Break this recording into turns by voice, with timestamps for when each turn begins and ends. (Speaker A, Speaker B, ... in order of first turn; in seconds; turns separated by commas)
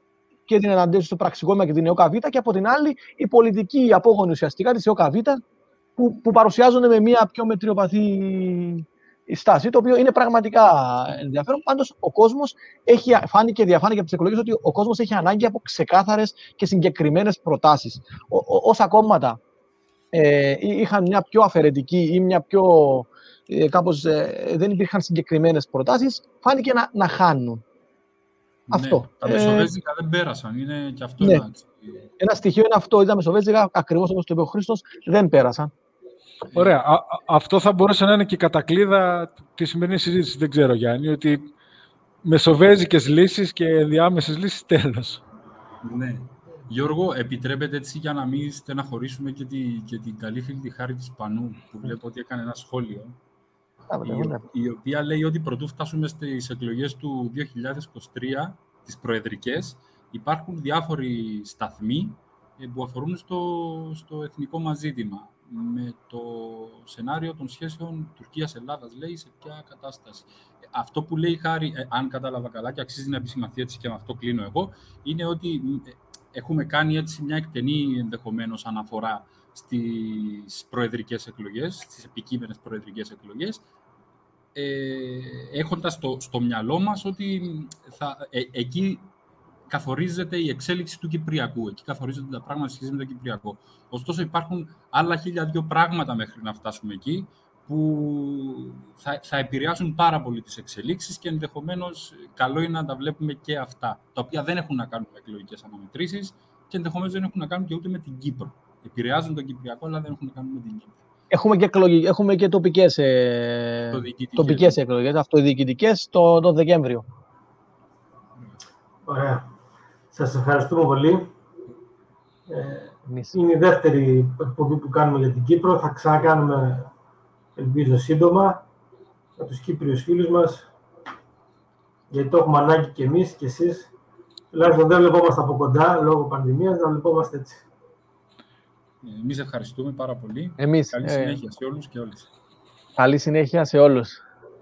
Speaker A: 0.5-5.4, Speaker A: 6.0-19.4, Speaker A: 20.1-27.6, Speaker B: 28.7-32.1, Speaker A: 28.7-29.7, Speaker A: 32.2-35.7, Speaker C: 36.5-41.5, Speaker C: 42.2-45.2, Speaker B: 45.8-53.2, Speaker A: 53.9-54.4, Speaker B: 54.0-83.6, Speaker B: 84.5-89.1, Speaker B: 89.7-111.0, Speaker A: 111.3-117.0, Speaker B: 113.8-114.8, Speaker D: 119.0-119.5, Speaker D: 120.1-121.3, Speaker D: 122.5-126.9, Speaker A: 123.1-123.4, Speaker D: 127.6-128.6, Speaker D: 129.4-130.7, Speaker D: 132.1-133.9, Speaker D: 134.5-137.6, Speaker B: 139.0-142.3, Speaker A: 140.6-141.4, Speaker A: 143.0-144.2